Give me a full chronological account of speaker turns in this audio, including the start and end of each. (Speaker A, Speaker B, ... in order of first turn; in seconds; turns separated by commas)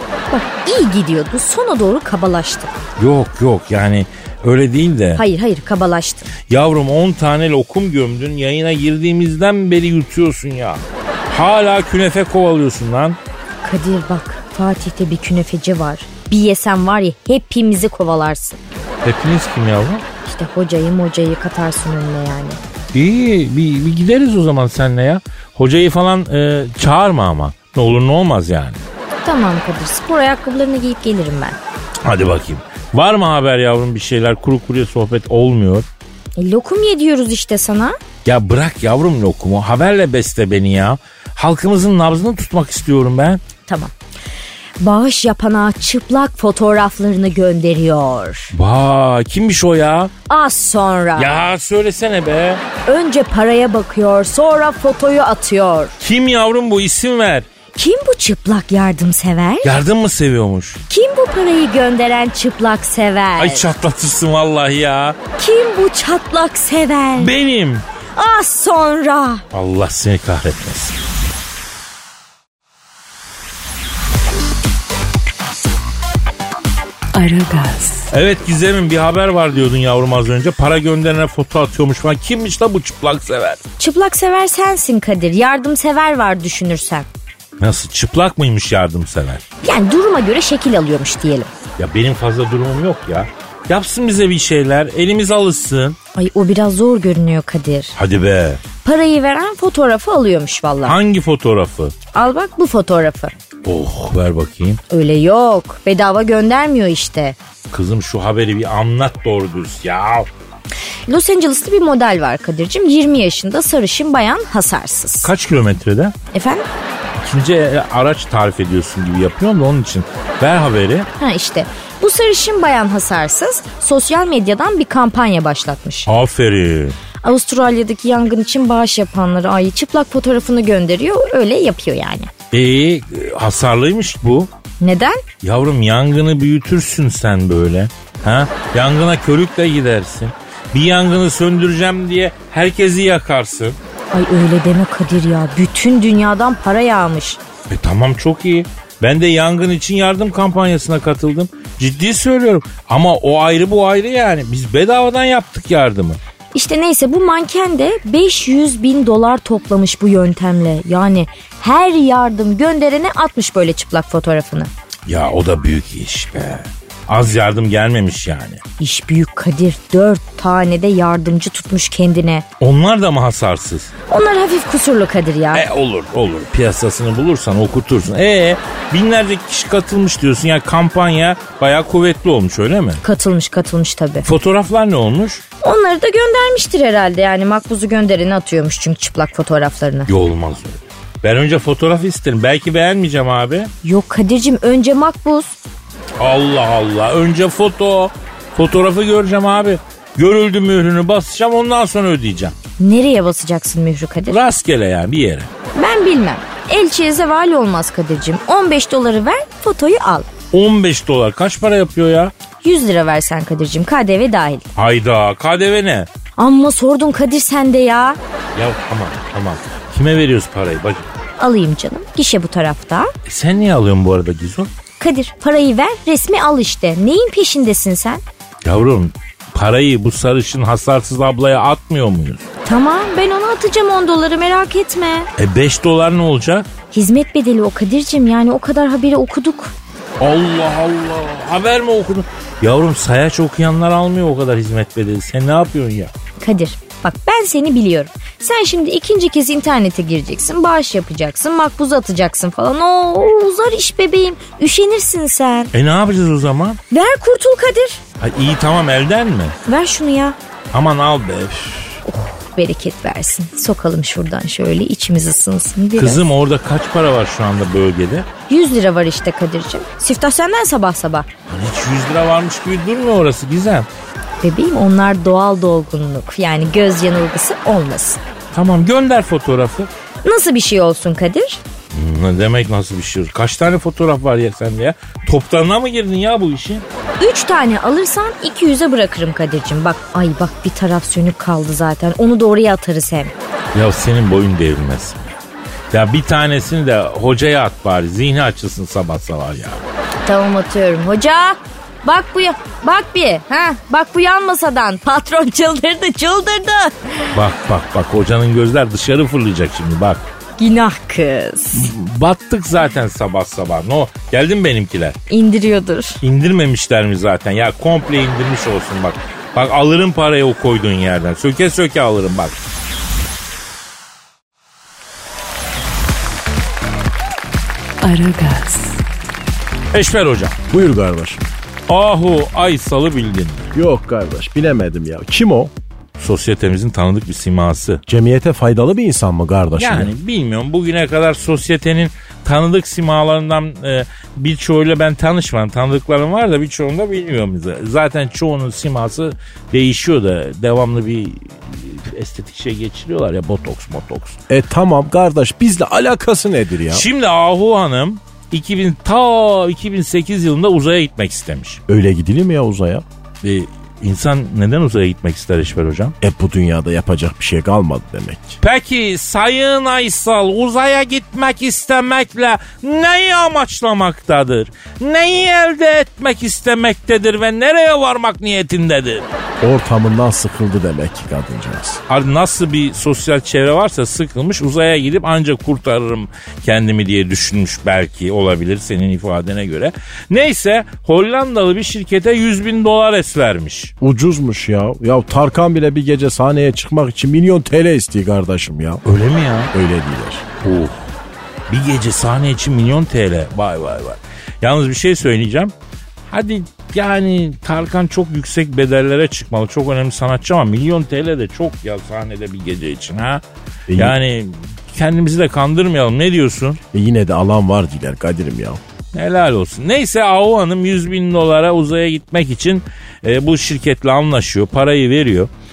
Speaker A: 0.3-2.7, Speaker B: 3.0-5.2, Speaker A: 5.2-6.3, Speaker B: 6.5-13.2, Speaker A: 13.6-18.6, Speaker B: 19.0-20.0, Speaker A: 20.2-22.6, Speaker B: 22.9-28.8, Speaker A: 29.2-31.6, Speaker B: 32.0-35.9, Speaker A: 36.4-38.0, Speaker B: 38.2-43.4, Speaker A: 43.7-43.9, Speaker A: 44.8-48.5, Speaker B: 48.5-50.1, Speaker A: 50.3-51.3, Speaker B: 51.2-52.6, Speaker A: 52.9-56.0, Speaker B: 56.0-57.5, Speaker A: 57.7-59.7, Speaker B: 59.6-60.8, Speaker A: 60.9-63.7, Speaker B: 63.4-65.2, Speaker A: 65.4-67.3, Speaker B: 67.2-67.8, Speaker A: 68.1-69.4, Speaker B: 69.5-71.0, Speaker C: 77.1-78.1, Speaker B: 78.1-83.6, Speaker A: 83.8-87.1, Speaker B: 87.6-89.4, Speaker A: 89.6-91.5, Speaker B: 91.8-96.0, Speaker A: 96.1-97.9, Speaker B: 98.0-98.6, Speaker A: 98.8-101.0, Speaker B: 100.8-101.9, Speaker A: 102.1-103.3, Speaker B: 103.6-104.8, Speaker A: 104.9-107.4, Speaker B: 107.7-110.3, Speaker A: 111.1-115.3, Speaker B: 115.2-116.1, Speaker A: 116.3-116.6, Speaker B: 117.2-121.1, Speaker A: 121.2-126.1, Speaker B: 126.1-127.0, Speaker A: 127.2-132.3, Speaker B: 132.5-134.5, Speaker A: 134.8-135.2, Speaker B: 135.4-143.8, Speaker A: 144.1-147.4, Speaker B: 147.7-156.2, Speaker A: 156.5-164.7, Speaker B: 165.1-168.6, Speaker A: 168.8-172.4, Speaker B: 172.6-173.9, Speaker A: 174.1-175.6, Speaker B: 175.5-183.0, Speaker A: 183.0-184.3, Speaker B: 184.2-185.4, Speaker A: 185.6-190.1, Speaker B: 190.1-193.7, Speaker A: 193.8-195.6, Speaker B: 196.2-202.6, Speaker A: 202.8-204.4, Speaker B: 204.3-205.5, Speaker A: 205.7-210.3, Speaker B: 210.5-212.3, Speaker A: 212.6-214.6, Speaker B: 214.8-216.1, Speaker A: 216.4-218.2, Speaker B: 218.5-221.1, Speaker A: 221.4-223.1, Speaker B: 223.2-224.7, Speaker A: 225.0-228.2, Speaker B: 228.6-232.4, Speaker A: 232.6-235.3, Speaker B: 235.4-236.7, Speaker A: 236.9-239.7, Speaker B: 240.2-246.1, Speaker A: 246.4-255.7, Speaker B: 255.7-256.8, Speaker A: 256.9-258.0, Speaker B: 258.2-259.6, Speaker A: 259.6-260.4, Speaker B: 260.7-262.0, Speaker A: 262.0-266.2, Speaker B: 266.0-268.3, Speaker A: 268.5-271.3, Speaker B: 271.5-273.9, Speaker A: 274.4-278.2, Speaker B: 278.5-279.9, Speaker A: 280.2-281.6, Speaker B: 281.9-286.8, Speaker A: 287.2-293.3, Speaker B: 293.7-295.3, Speaker B: 295.9-299.8, Speaker A: 300.2-307.1, Speaker B: 307.3-310.2, Speaker A: 310.6-311.9, Speaker B: 311.7-315.2, Speaker A: 315.3-316.2, Speaker B: 316.2-322.5, Speaker C: 328.0-329.0, Speaker B: 329.9-330.6, Speaker D: 330.7-331.4, Speaker B: 331.9-333.7, Speaker D: 333.7-335.7, Speaker B: 336.2-338.0, Speaker D: 338.1-340.1, Speaker B: 339.8-354.4, Speaker D: 354.5-357.1, Speaker B: 356.9-361.8, Speaker D: 361.9-363.0, Speaker B: 363.4-366.1, Speaker D: 366.2-368.6, Speaker B: 368.6-379.3, Speaker D: 379.6-382.0, Speaker B: 382.1-393.9, Speaker D: 394.0-399.0, Speaker B: 399.0-399.7, Speaker D: 399.7-400.4, Speaker B: 400.6-401.1, Speaker B: 401.7-405.7, Speaker B: 406.3-413.4, Speaker D: 413.9-414.2, Speaker B: 413.9-416.8, Speaker D: 416.9-418.8, Speaker B: 419.1-425.5